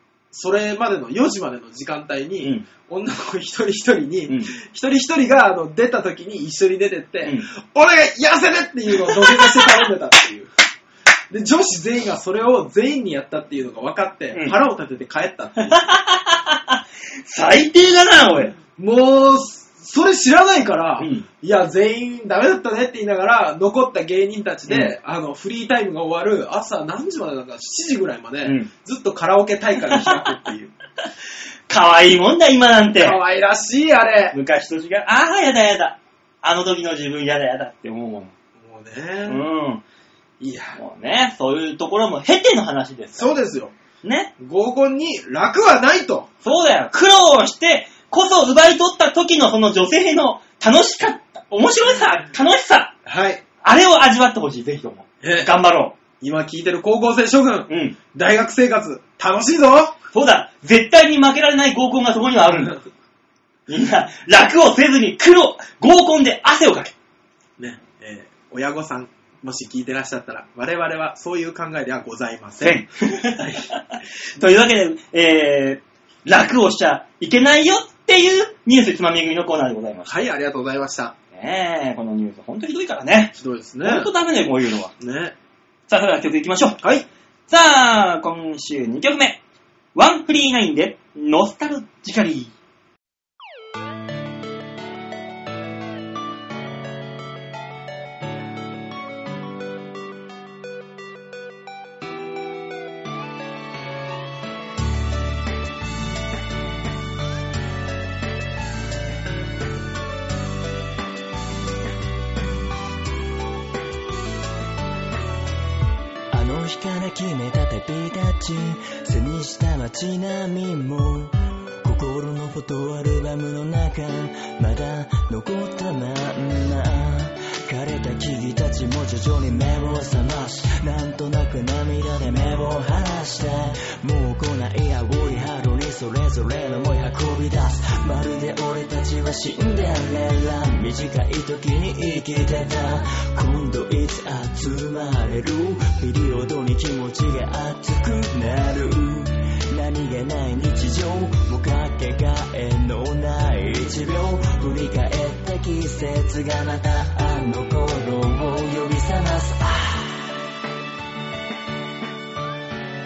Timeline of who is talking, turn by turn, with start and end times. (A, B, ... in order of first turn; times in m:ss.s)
0:00.3-0:10.5 A
0:09.2-0:09.6 B
0:11.3-0:15.8 A
0:15.7-0:18.6 B
0:18.7-0:30.7 A
0:21.0-0:21.2 B
0:24.7-0:24.9 B
0:28.4-0:28.7 B
0:29.9-0:30.2 B
0:31.7-0:33.2 B
0:33.0-0:34.4 A
0:34.3-0:38.3 B
0:38.6-0:39.4 A
0:39.2-0:39.8 B
0:40.4-0:40.8 A
0:40.8-0:43.3 B
0:43.1-0:43.7 A
0:44.0-0:44.3 B
0:44.4-0:46.3 A
0:46.4-0:52.9 B
0:53.0-0:53.4 A
0:53.6-0:56.0 B
0:55.2-0:55.5 A
0:56.2-1:00.0 A
0:57.7-0:58.0 B
1:00.1-1:02.8 B
1:02.5-1:02.8 A
1:03.7-1:06.9 B
1:07.6-1:12.8 A
1:12.6-1:20.1 B
1:20.0-1:21.1 A
1:21.3-1:24.9 B
1:23.4-1:24.1 A
1:25.0-1:25.3 A
1:25.9-1:26.8 B
1:27.5-1:29.4 B
1:29.9-1:32.5 B
1:56.3-2:40.2 C